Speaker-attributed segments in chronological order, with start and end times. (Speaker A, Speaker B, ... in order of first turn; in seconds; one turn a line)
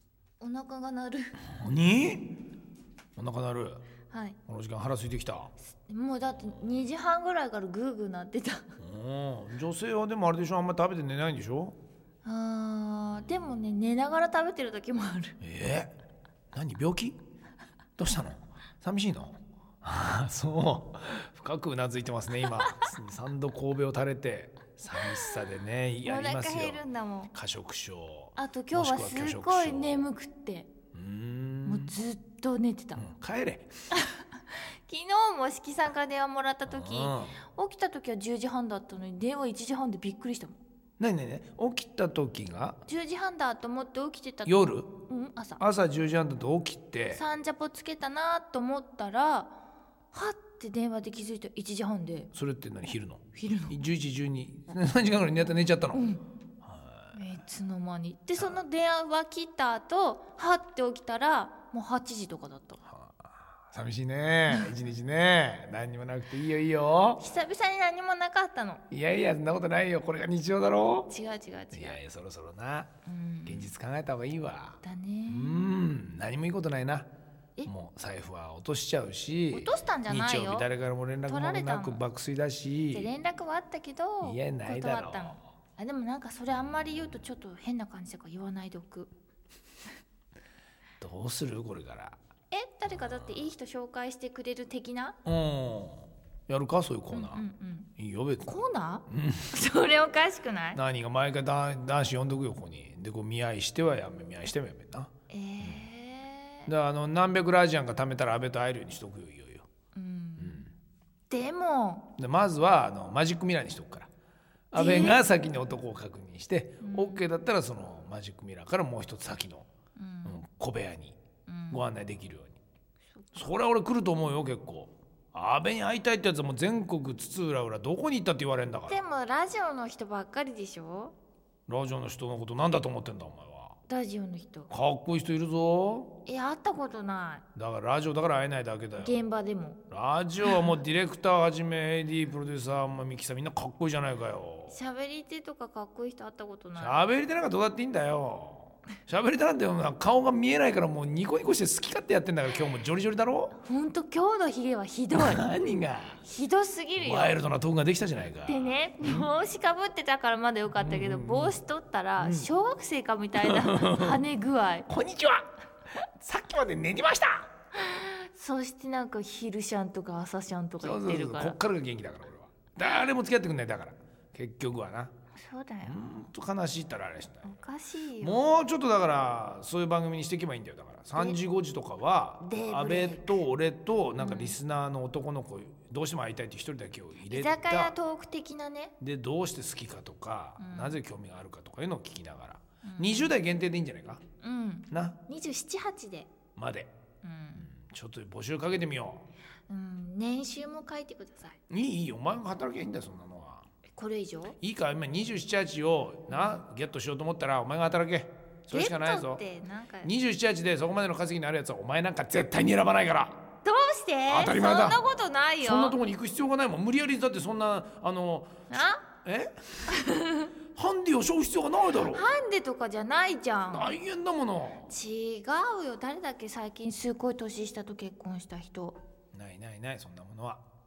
Speaker A: 0.4-1.4
Speaker B: 1.5-2.3
Speaker B: 3.2-3.8
Speaker A: 4.1-4.4
Speaker B: 4.5-5.5
Speaker A: 5.7-8.7
Speaker B: 8.8-11.8
Speaker A: 12.2-15.4
Speaker B: 15.4-15.9
Speaker B: 16.5-17.2
Speaker B: 18.0-26.8
Speaker A: 22.4-22.7
Speaker A: 25.1-25.4
Speaker A: 26.0-27.3
Speaker B: 27.3-30.1
Speaker A: 28.4-30.7
Speaker B: 30.9-31.9
Speaker A: 31.7-33.0
Speaker B: 33.0-33.7
Speaker A: 33.9-40.6
Speaker B: 36.7-37.4
Speaker B: 41.0-42.8
Speaker A: 42.9-45.6
Speaker B: 44.5-44.9
Speaker B: 45.6-47.2
Speaker A: 47.1-49.6
Speaker A: 50.1-52.3
Speaker B: 52.3-57.2
Speaker A: 53.4-53.8
Speaker A: 55.9-56.2
Speaker A: 57.1-62.8
Speaker B: 62.8-67.2
Speaker A: 67.2-68.8
Speaker B: 68.9-71.1
Speaker A: 71.1-72.0
Speaker B: 71.7-72.9
Speaker A: 73.1-73.7
Speaker B: 73.5-77.1
Speaker A: 74.8-75.8
Speaker B: 77.7-83.1
Speaker A: 79.5-80.7
Speaker A: 81.3-82.0
Speaker A: 82.9-89.1
Speaker B: 84.2-85.4
Speaker B: 91.0-92.2
Speaker A: 92.5-95.2
Speaker B: 95.2-97.5
Speaker A: 97.1-97.9
Speaker B: 98.0-98.6
Speaker A: 98.5-100.8
Speaker B: 99.1-99.5
Speaker B: 100.8-105.1
Speaker A: 105.3-106.7
Speaker B: 106.7-109.7
Speaker A: 110.0-110.6
Speaker B: 110.4-110.7
Speaker A: 111.3-112.1
Speaker B: 112.2-114.1
Speaker B: 114.7-119.7
Speaker A: 114.7-115.2
Speaker A: 116.8-117.2
Speaker A: 120.0-120.4
Speaker B: 120.3-121.2
Speaker A: 121.5-121.8
Speaker B: 121.7-122.6
Speaker B: 123.3-129.0
Speaker A: 128.9-131.2
Speaker B: 131.7-133.8
Speaker A: 133.9-134.7
Speaker B: 134.7-136.1
Speaker A: 136.3-137.4
Speaker B: 137.6-139.2
Speaker A: 139.0-139.8
Speaker B: 139.9-144.8
Speaker A: 140.4-140.7
Speaker A: 144.7-147.0
Speaker B: 146.8-153.6
Speaker A: 153.6-155.5
Speaker B: 155.2-156.2
Speaker A: 156.2-157.4
Speaker B: 157.0-159.3
Speaker A: 158.4-164.9
Speaker B: 160.8-161.6
Speaker B: 162.2-162.5
Speaker B: 163.4-164.2
Speaker B: 164.9-165.5
Speaker B: 166.2-167.5
Speaker A: 167.8-171.6
Speaker B: 170.8-175.1
Speaker A: 175.4-176.1
Speaker B: 175.8-177.5
Speaker A: 177.4-178.4
Speaker B: 178.2-187.9
Speaker A: 182.4-183.4
Speaker A: 184.2-184.6
Speaker A: 187.3-188.9
Speaker B: 189.0-194.2
Speaker A: 190.6-191.0
Speaker A: 192.8-193.3
Speaker A: 194.4-196.3
Speaker B: 194.9-195.2
Speaker B: 196.6-196.9
Speaker A: 197.2-197.7
Speaker B: 197.6-199.2
Speaker A: 199.7-201.6
Speaker B: 201.7-203.7
Speaker A: 203.9-204.6
Speaker B: 204.6-209.4
Speaker A: 206.3-206.6
Speaker A: 208.7-210.1
Speaker B: 210.0-213.4
Speaker A: 213.7-216.0
Speaker B: 214.3-215.0
Speaker B: 215.6-218.6
Speaker A: 218.7-219.0
Speaker B: 219.2-219.9
Speaker A: 219.9-220.5
Speaker B: 220.8-222.3
Speaker A: 222.0-224.0
Speaker B: 223.7-224.9
Speaker A: 224.9-229.0
Speaker B: 229.3-230.6